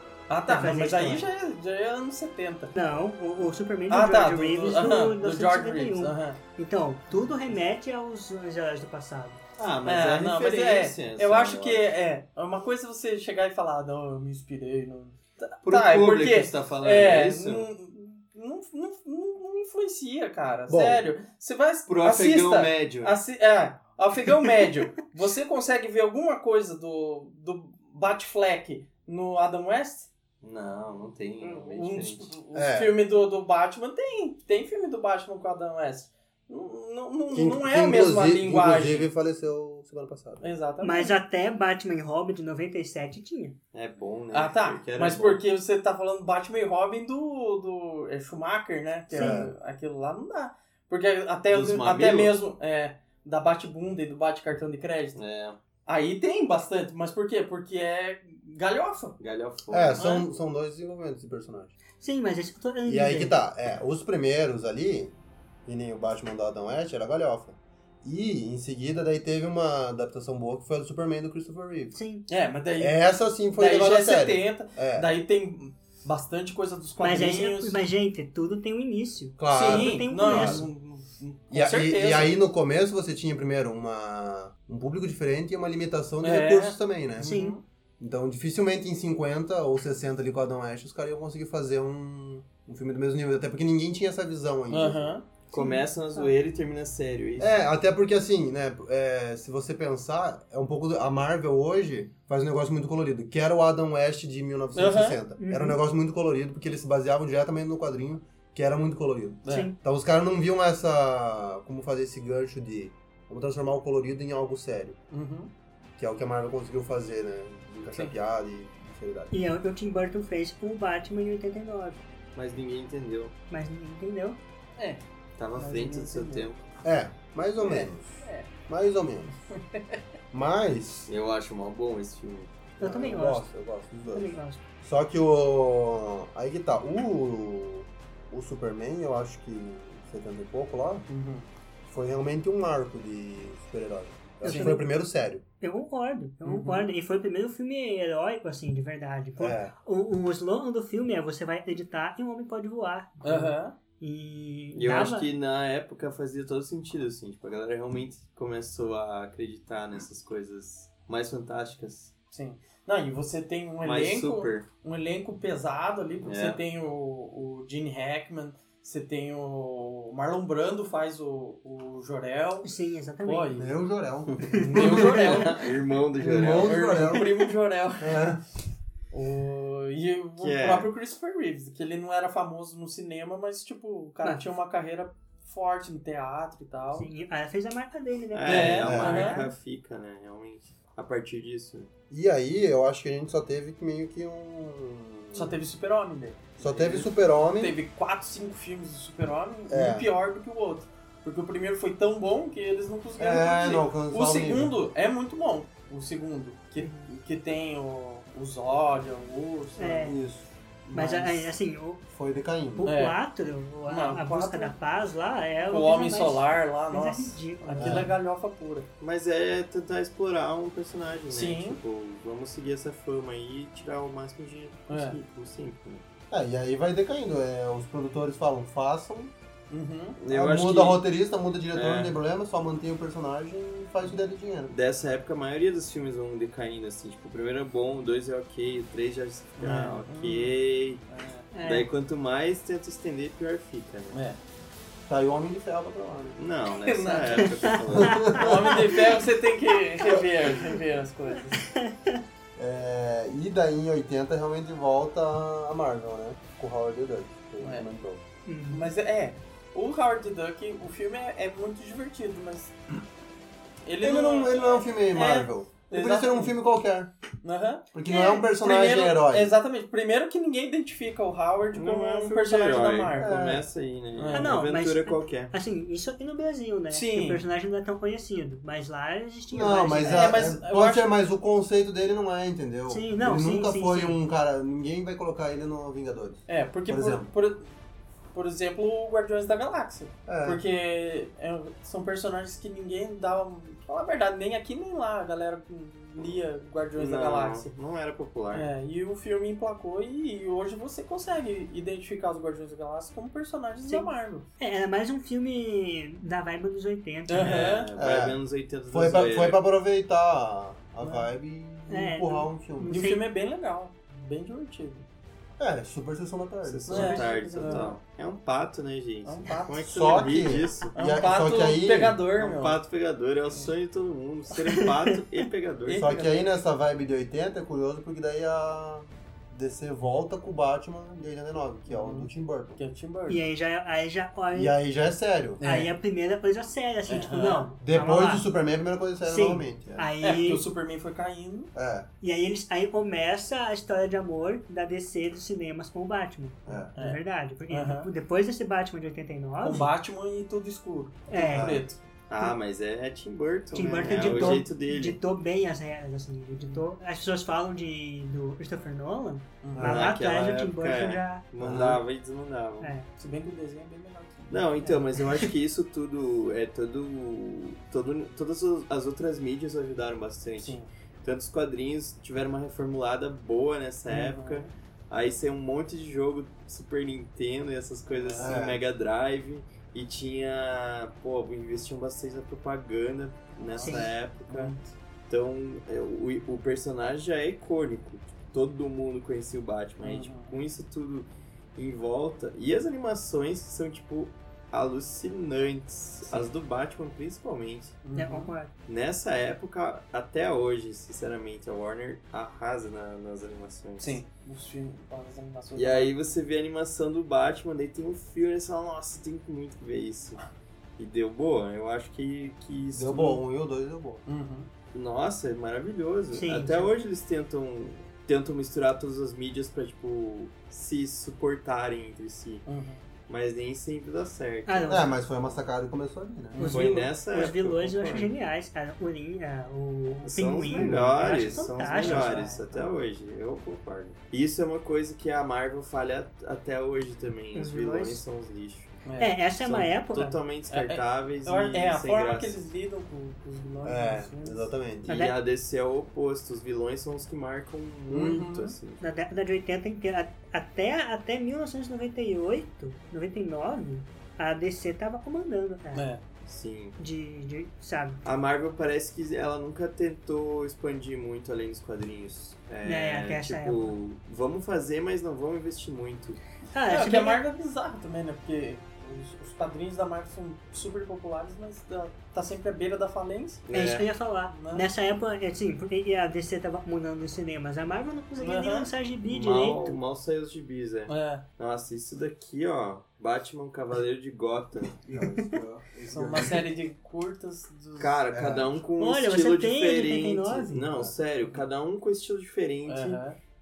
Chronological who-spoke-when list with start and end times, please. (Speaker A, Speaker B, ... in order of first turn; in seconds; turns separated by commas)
Speaker A: 0.3-2.8, Speaker B: 0.5-1.3, Speaker B: 2.8-9.4, Speaker A: 3.9-6.4, Speaker C: 9.6-11.9, Speaker A: 9.8-30.1, Speaker C: 15.6-17.7, Speaker D: 20.7-21.1, Speaker C: 21.9-23.2, Speaker C: 30.4-32.4, Speaker A: 31.4-39.1, Speaker D: 32.5-33.0, Speaker D: 37.3-40.5, Speaker A: 40.4-41.1, Speaker B: 40.8-43.6, Speaker C: 43.7-45.4, Speaker A: 44.3-55.2, Speaker B: 49.1-49.4, Speaker D: 49.1-49.5, Speaker C: 51.5-52.4, Speaker C: 55.1-55.6, Speaker A: 55.9-59.2, Speaker C: 59.2-60.1, Speaker D: 59.7-61.8, Speaker A: 60.0-60.2, Speaker B: 62.0-63.4, Speaker D: 62.9-65.1, Speaker D: 65.7-71.9, Speaker B: 71.9-72.2, Speaker A: 72.3-77.8, Speaker D: 72.8-75.1, Speaker B: 77.0-80.7, Speaker D: 79.4-80.7, Speaker A: 79.5-82.4, Speaker D: 81.5-87.4, Speaker A: 86.2-87.6, Speaker B: 87.2-87.6, Speaker D: 88.0-95.2, Speaker A: 94.7-95.2, Speaker C: 95.5-97.6, Speaker B: 95.5-96.3, Speaker D: 97.4-115.0, Speaker A: 104.8-105.2, Speaker B: 105.4-105.8, Speaker A: 109.4-109.7, Speaker B: 109.5-109.8, Speaker A: 115.1-115.5, Speaker D: 116.0-119.3, Speaker B: 119.3-122.0, Speaker C: 122.3-123.3, Speaker B: 123.5-124.4, Speaker A: 124.8-125.0, Speaker C: 125.4-126.6, Speaker A: 125.6-126.5, Speaker D: 126.8-128.1, Speaker A: 127.6-128.5, Speaker D: 128.7-129.3, Speaker A: 129.6-130.0, Speaker D: 130.3-131.1, Speaker C: 131.1-132.6, Speaker D: 132.8-141.1, Speaker B: 132.8-133.5, Speaker B: 134.1-134.6, Speaker A: 141.1-141.5, Speaker D: 141.9-145.4, Speaker B: 144.4-144.9, Speaker A: 144.4-144.8, Speaker B: 145.6-155.3, Speaker A: 146.4-146.9, Speaker D: 149.4-149.7, Speaker A: 153.2-153.8, Speaker C: 154.7-162.1, Speaker A: 162.3-172.7, Speaker C: 163.8-164.7, Speaker C: 166.2-166.6, Speaker B: 172.6-173.5, Speaker A: 173.2-173.7, Speaker D: 173.5-175.3, Speaker B: 174.5-175.4, Speaker A: 174.5-175.6, Speaker C: 175.1-176.8, Speaker D: 176.2-177.3, Speaker A: 176.3-178.4, Speaker D: 178.0-178.4, Speaker A: 179.1-187.1, Speaker C: 180.4-180.9, Speaker B: 186.9-189.5, Speaker C: 188.3-191.9, Speaker A: 188.4-189.4, Speaker D: 188.7-189.1, Speaker D: 192.1-195.6, Speaker A: 195.3-210.2, Speaker D: 196.6-197.8, Speaker D: 199.7-200.1, Speaker D: 203.2-204.7, Speaker B: 206.8-207.1, Speaker B: 209.8-210.2, Speaker D: 210.0-210.5, Speaker A: 210.9-211.5, Speaker B: 210.9-212.0, Speaker D: 212.1-212.9, Speaker A: 212.8-213.2, Speaker B: 212.8-218.1, Speaker A: 213.9-214.8, Speaker A: 215.7-218.9, Speaker D: 217.8-218.1, Speaker C: 219.0-226.0, Speaker A: 221.3-221.8, Speaker A: 224.9-225.2, Speaker D: 226.3-229.3, Speaker A: 229.7-230.2, Speaker C: 230.2-231.0, Speaker D: 230.3-234.7, Speaker C: 231.7-232.2, Speaker C: 234.7-241.0, Speaker A: 239.6-240.6, Speaker A: 241.1-241.5, Speaker B: 241.5-241.9, Speaker C: 241.6-244.2, Speaker A: 244.1-244.4, Speaker D: 245.1-246.4, Speaker C: 246.4-248.6, Speaker A: 246.8-251.7, Speaker B: 247.6-248.8, Speaker D: 247.9-248.8, Speaker B: 251.5-252.2, Speaker D: 252.6-258.2, Speaker A: 257.6-257.9, Speaker B: 258.5-258.9, Speaker A: 258.7-262.7, Speaker A: 263.9-266.6, Speaker D: 264.0-267.1, Speaker A: 267.4-273.3, Speaker D: 267.9-269.5, Speaker B: 268.1-268.5, Speaker C: 271.7-275.5, Speaker D: 273.2-273.7, Speaker A: 274.2-274.6, Speaker B: 274.3-280.4, Speaker A: 276.9-277.4, Speaker D: 279.5-287.3, Speaker A: 280.0-281.1, Speaker B: 282.9-284.2, Speaker A: 286.5-287.7, Speaker A: 288.3-297.7, Speaker D: 290.3-290.6, Speaker C: 297.0-298.7, Speaker A: 298.5-304.5, Speaker B: 303.9-307.7, Speaker A: 307.3-307.9, Speaker C: 307.4-309.6, Speaker D: 308.0-313.0, Speaker A: 311.0-311.3, Speaker B: 311.9-313.2, Speaker A: 312.9-315.1, Speaker D: 315.6-317.4, Speaker C: 316.6-320.9, Speaker A: 316.9-318.0, Speaker B: 317.1-317.9, Speaker A: 319.2-320.4, Speaker D: 319.9-322.2, Speaker A: 320.9-322.8, Speaker C: 322.4-326.1, Speaker B: 324.7-324.9, Speaker A: 325.9-326.4, Speaker D: 325.9-332.8, Speaker A: 331.9-333.4, Speaker B: 333.3-334.7, Speaker D: 334.5-335.6, Speaker A: 335.6-335.9, Speaker B: 335.6-338.5, Speaker A: 337.1-337.7, Speaker D: 337.8-340.1, Speaker B: 339.2-340.6, Speaker A: 340.2-341.7, Speaker D: 341.8-342.1, Speaker B: 342.2-349.9, Speaker D: 346.7-346.9, Speaker A: 347.0-348.1, Speaker A: 349.6-352.0, Speaker B: 351.3-351.8, Speaker D: 351.6-351.8, Speaker C: 352.3-355.2, Speaker B: 353.7-361.4, Speaker D: 354.0-354.6, Speaker A: 356.6-356.9, Speaker A: 359.6-360.1, Speaker D: 359.8-360.0, Speaker C: 359.8-363.0, Speaker D: 361.6-362.0, Speaker B: 362.8-363.1, Speaker A: 363.2-364.7, Speaker C: 364.5-384.8, Speaker B: 364.8-365.5, Speaker A: 370.6-370.9, Speaker A: 374.1-374.7, Speaker A: 378.1-378.6, Speaker D: 378.4-378.8, Speaker A: 383.8-384.9, Speaker B: 383.8-384.1, Speaker C: 385.3-398.0, Speaker A: 390.0-390.6, Speaker A: 398.1-398.5, Speaker B: 398.2-398.7, Speaker C: 398.9-404.2, Speaker A: 404.0-406.1, Speaker C: 405.8-410.4, Speaker C: 411.0-413.4, Speaker D: 412.9-414.2, Speaker A: 414.3-414.7, Speaker C: 414.9-422.6, Speaker B: 416.4-416.9, Speaker A: 422.7-423.0, Speaker C: 423.3-425.0, Speaker B: 424.7-425.1, Speaker D: 424.9-426.6, Speaker A: 426.5-426.9, Speaker B: 426.6-432.6, Speaker C: 426.6-428.3, Speaker C: 430.2-442.6, Speaker A: 430.8-431.1, Speaker A: 431.8-432.6, Speaker B: 437.5-438.2, Speaker A: 439.1-439.4, Speaker B: 439.2-440.4, Speaker A: 440.7-444.7, Speaker D: 443.8-445.1, Speaker C: 445.1-449.0, Speaker B: 445.1-445.4, Speaker D: 448.1-448.4, Speaker A: 448.1-448.8, Speaker B: 449.0-456.1, Speaker A: 455.9-456.2, Speaker C: 456.5-457.0, Speaker B: 457.0-458.2, Speaker C: 458.2-466.4, Speaker B: 462.8-463.9, Speaker B: 466.7-467.4, Speaker A: 466.9-473.7, Speaker C: 473.7-474.1, Speaker B: 473.7-480.0, Speaker A: 474.5-474.9, Speaker A: 478.4-478.9, Speaker C: 479.3-485.0, Speaker A: 481.1-481.5, Speaker D: 485.0-486.7, Speaker A: 486.1-488.2, Speaker C: 488.0-493.2, Speaker D: 488.3-488.7, Speaker B: 489.0-490.9, Speaker D: 490.9-491.1, Speaker A: 492.9-493.4